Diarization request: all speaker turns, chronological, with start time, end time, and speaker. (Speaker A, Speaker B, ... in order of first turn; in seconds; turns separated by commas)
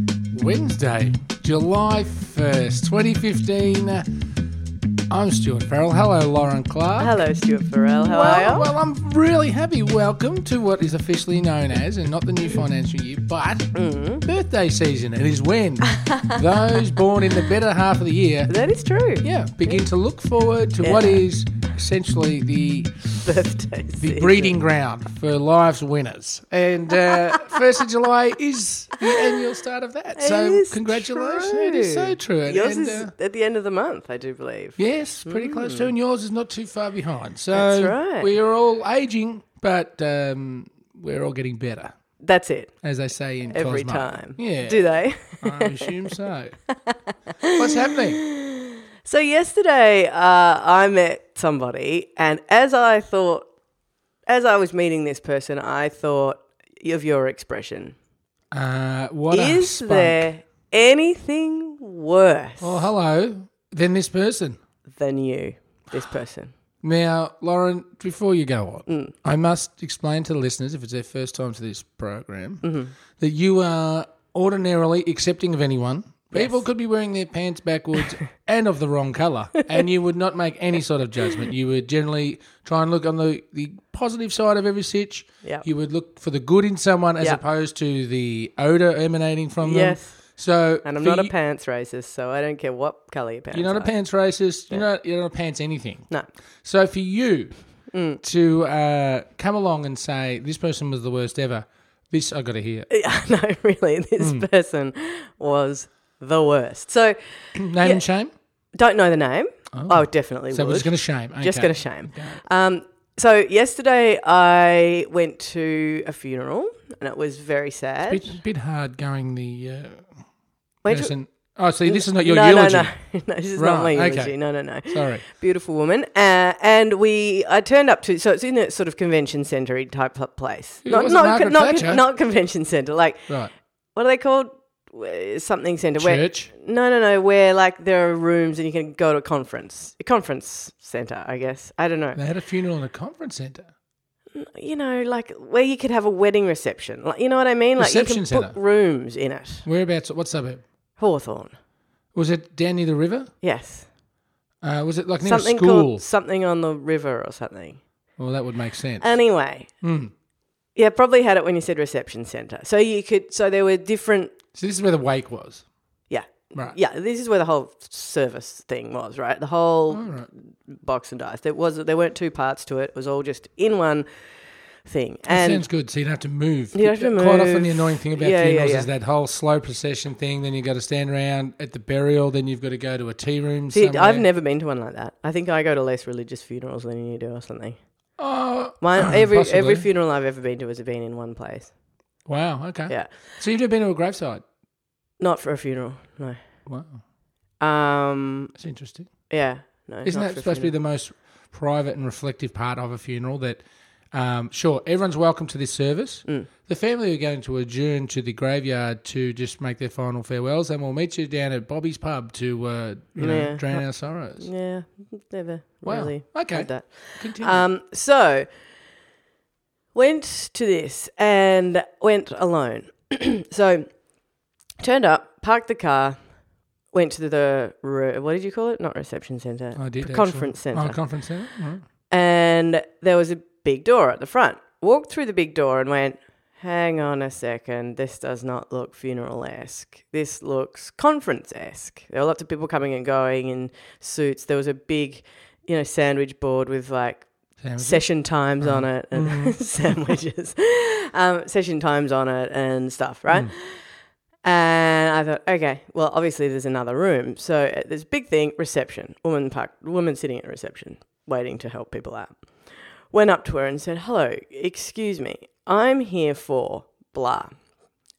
Speaker A: 0.3-4.2, Speaker A: 5.1-7.2, Speaker B: 7.0-8.7, Speaker A: 8.0-13.7, Speaker B: 13.7-14.2, Speaker A: 14.2-18.5, Speaker B: 15.9-16.8, Speaker B: 18.5-19.8, Speaker A: 19.2-23.2, Speaker B: 20.8-21.2, Speaker B: 23.2-24.6, Speaker A: 24.0-33.1, Speaker B: 27.0-27.6, Speaker B: 29.0-29.5, Speaker B: 30.2-35.9, Speaker A: 34.8-41.9, Speaker B: 37.5-38.3, Speaker B: 42.2-42.7, Speaker A: 42.8-46.5, Speaker B: 43.5-45.9, Speaker B: 46.7-53.5, Speaker A: 47.5-48.2, Speaker B: 54.3-58.0, Speaker A: 58.5-60.3, Speaker B: 59.3-62.8, Speaker A: 62.6-64.6, Speaker B: 64.9-66.5, Speaker A: 66.8-72.6, Speaker B: 68.9-69.1, Speaker B: 72.6-72.9, Speaker A: 73.2-91.3, Speaker B: 89.6-90.1, Speaker B: 90.8-93.9, Speaker A: 93.5-96.1, Speaker A: 96.6-97.5, Speaker B: 97.9-98.2, Speaker A: 98.2-102.9, Speaker B: 102.9-107.2, Speaker A: 104.2-104.5, Speaker A: 107.5-108.3, Speaker B: 107.8-108.0, Speaker B: 108.8-118.4, Speaker A: 109.7-112.4, Speaker A: 118.0-120.1, Speaker B: 120.8-121.1, Speaker A: 120.9-122.9, Speaker B: 121.8-133.3, Speaker A: 123.5-124.3, Speaker A: 124.9-125.2, Speaker A: 130.8-132.0, Speaker B: 133.9-142.2, Speaker A: 136.0-136.5, Speaker A: 142.2-143.7, Speaker B: 144.3-149.7, Speaker A: 147.8-148.6, Speaker A: 149.7-150.6, Speaker B: 151.0-151.5, Speaker A: 152.1-153.3, Speaker B: 153.4-153.9, Speaker A: 154.6-156.0, Speaker B: 155.2-157.8, Speaker A: 158.2-159.1, Speaker B: 159.0-159.7, Speaker A: 159.8-160.1, Speaker B: 160.8-164.3, Speaker A: 164.5-165.6, Speaker B: 166.1-174.1, Speaker A: 169.9-170.3, Speaker B: 174.8-175.7, Speaker A: 175.3-184.2, Speaker B: 176.8-178.9, Speaker B: 183.7-187.8, Speaker A: 188.2-189.8, Speaker B: 188.8-191.7, Speaker A: 192.2-194.4, Speaker B: 195.2-196.4, Speaker A: 196.7-197.0, Speaker B: 197.6-198.5, Speaker A: 198.5-199.1, Speaker B: 199.3-200.7, Speaker A: 200.0-214.5, Speaker B: 213.2-213.8, Speaker B: 214.4-218.5, Speaker A: 215.8-217.7, Speaker B: 219.9-223.9, Speaker B: 224.8-226.2, Speaker B: 226.9-231.0, Speaker A: 229.8-231.8, Speaker B: 232.1-247.3, Speaker A: 247.6-248.0, Speaker B: 247.8-253.6, Speaker A: 248.6-250.1, Speaker B: 254.4-262.4, Speaker B: 263.1-267.5